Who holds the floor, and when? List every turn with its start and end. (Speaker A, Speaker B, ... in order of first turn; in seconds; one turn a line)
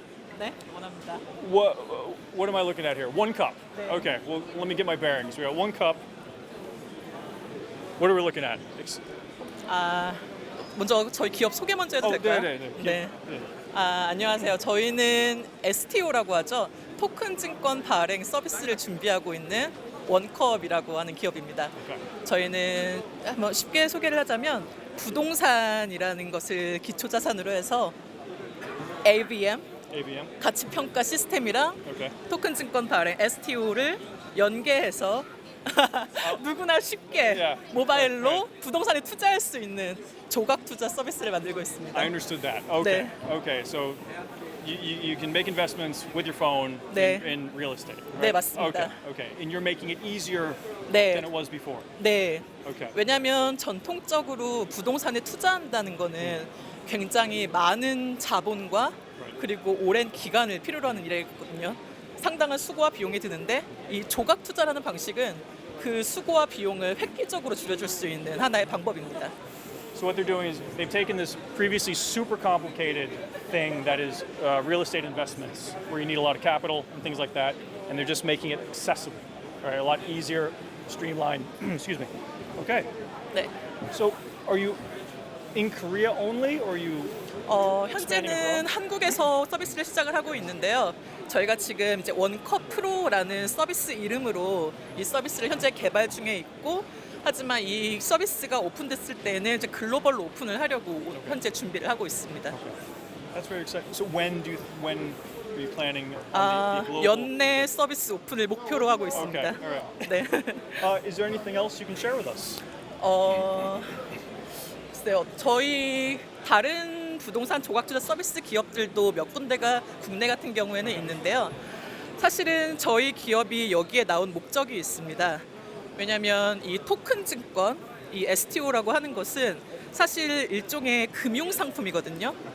Speaker A: 0.3-1.2
Speaker B: 1.3-6.0
Speaker A: 3.8-4.1
Speaker B: 8.0-9.0
Speaker A: 9.7-10.2
Speaker A: 10.8-13.2
Speaker B: 12.0-13.5
Speaker A: 13.7-27.9
Speaker B: 21.8-22.0
Speaker A: 29.0-29.7
Speaker B: 29.9-30.3
Speaker A: 30.4-42.1
Speaker B: 31.9-32.2
Speaker B: 36.2-36.4
Speaker B: 37.2-38.5
Speaker B: 41.9-44.0
Speaker A: 42.8-43.1
Speaker B: 44.6-51.9
Speaker A: 46.9-47.3
Speaker A: 48.2-49.0
Speaker A: 50.9-51.3
Speaker A: 52.0-69.3
Speaker B: 52.6-53.0
Speaker B: 69.9-82.9
Speaker B: 83.9-84.8
Speaker B: 85.5-87.1
Speaker A: 87.5-102.6
Speaker B: 87.9-88.7
Speaker B: 101.1-101.4
Speaker B: 102.5-102.8
Speaker B: 103.3-107.5
Speaker A: 106.3-110.9
Speaker B: 109.1-110.0
Speaker B: 110.8-112.6
Speaker A: 113.0-114.0
Speaker A: 114.9-121.5
Speaker A: 122.2-132.4